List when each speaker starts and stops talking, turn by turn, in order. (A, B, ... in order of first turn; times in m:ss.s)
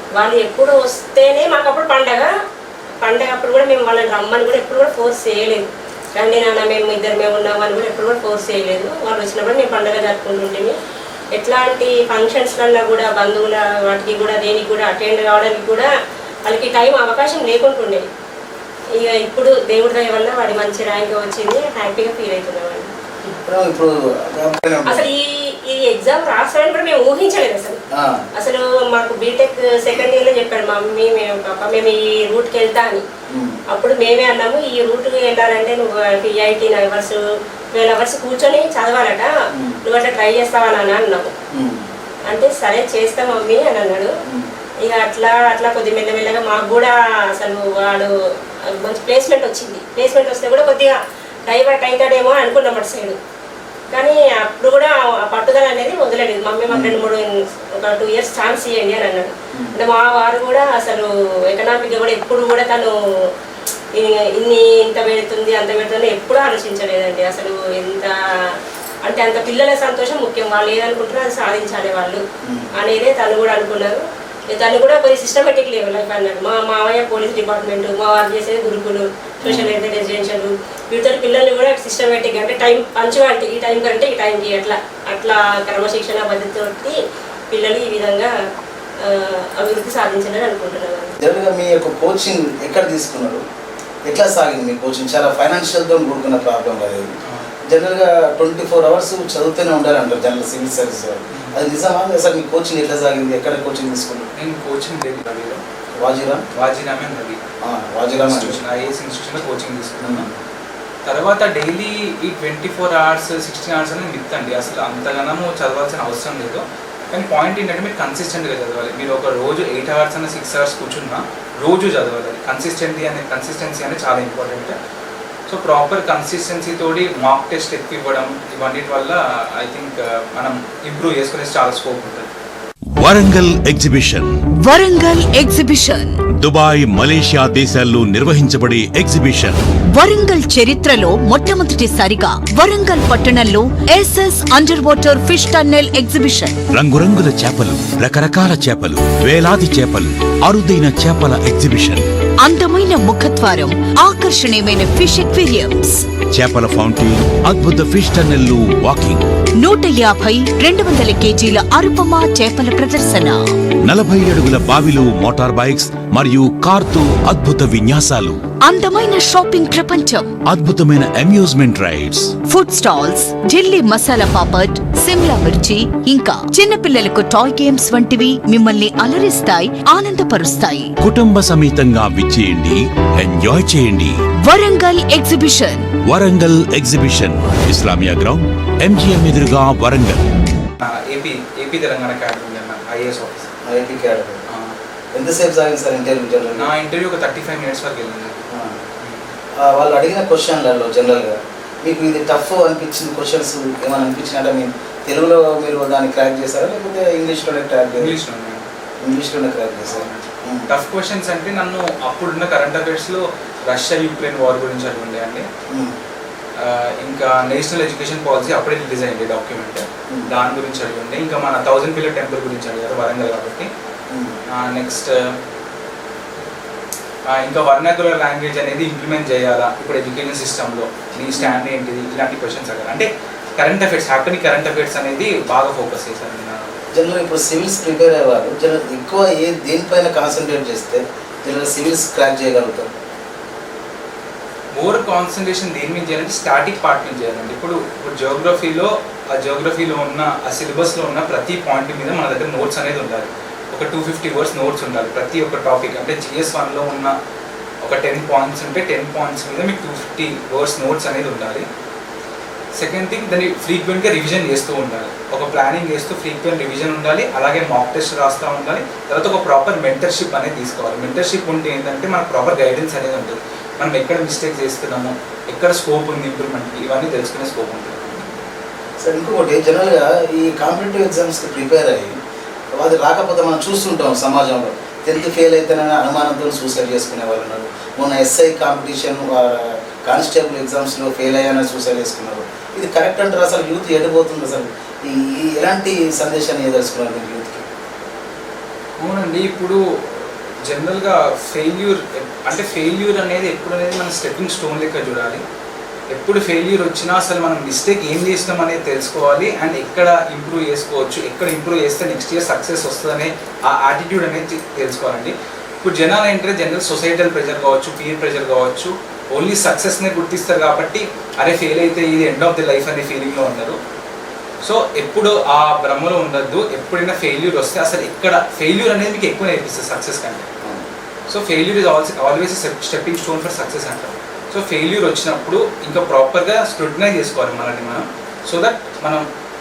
0:00.2-0:02.3 A
0:03.0-0:10.8 A
0:11.3-0:15.9 A
0:16.4-0:18.0 A
0:19.0-0:22.9 A
0:23.4-0:25.1 B
0:24.9-0:27.8 A
0:27.9-0:28.2 B
0:28.3-0:33.0 A
0:33.3-0:33.6 B
0:33.7-0:37.2 A
0:37.7-0:39.3 A
0:39.5-0:39.8 B
0:39.8-0:41.3 A
0:41.5-0:41.9 B
0:42.3-0:44.1 A
0:44.9-0:48.1 A
0:48.8-0:53.2 A
0:53.9-1:02.9 A
0:56.7-0:57.0 B
1:03.9-1:08.1 A
1:09.0-1:12.2 A
1:12.4-1:12.7 B
1:12.8-1:27.0 A
1:19.4-1:19.7 B
1:27.5-1:28.3 A
1:29.0-1:31.1 A
1:31.2-1:33.4 B
1:34.1-1:37.1 B
1:37.2-1:37.5 C
1:37.7-1:44.3 B
1:41.3-1:41.6 C
1:44.3-1:45.6 C
1:46.0-1:46.5 B
1:46.5-1:47.4 C
1:47.6-1:48.6 B
1:48.2-1:50.3 C
1:50.0-1:50.4 B
1:51.0-2:04.7 C
2:05.5-2:12.3 C
2:12.9-2:14.3 D
2:14.6-2:16.2 E
2:16.4-2:19.6 D
2:19.9-2:26.6 E
2:26.7-2:32.0 D
2:32.4-2:36.0 E
2:36.3-2:39.3 D
2:39.6-2:43.4 E
2:43.8-2:48.4 D
2:48.6-2:50.3 E
2:50.5-2:52.3 D
2:52.5-3:00.9 E
3:01.0-3:04.2 D
3:04.4-3:05.9 E
3:06.0-3:10.3 D
3:10.8-3:13.5 C
3:13.7-3:14.4 B
3:14.5-3:14.7 C
3:15.1-3:16.7 B
3:16.6-3:18.4 C
3:18.5-3:18.8 B
3:19.0-3:19.3 C
3:19.6-3:28.1 B
3:28.0-3:28.7 C
3:29.0-3:30.6 B
3:29.9-3:35.4 C
3:36.6-3:43.7 C
3:44.1-3:44.4 B
3:44.5-3:45.3 C
3:47.3-3:53.1 C
3:51.4-3:51.6 B
3:53.6-3:56.7 C
3:56.9-4:02.9 B
4:04.7-4:17.1 C
4:17.8-4:21.6 C
4:22.8-4:38.3 C
4:39.0-4:42.1 B
4:42.8-4:57.6 B
4:59.0-5:05.4 C
5:06.1-5:23.8 C
5:24.6-5:30.4 C
5:31.3-5:39.2 C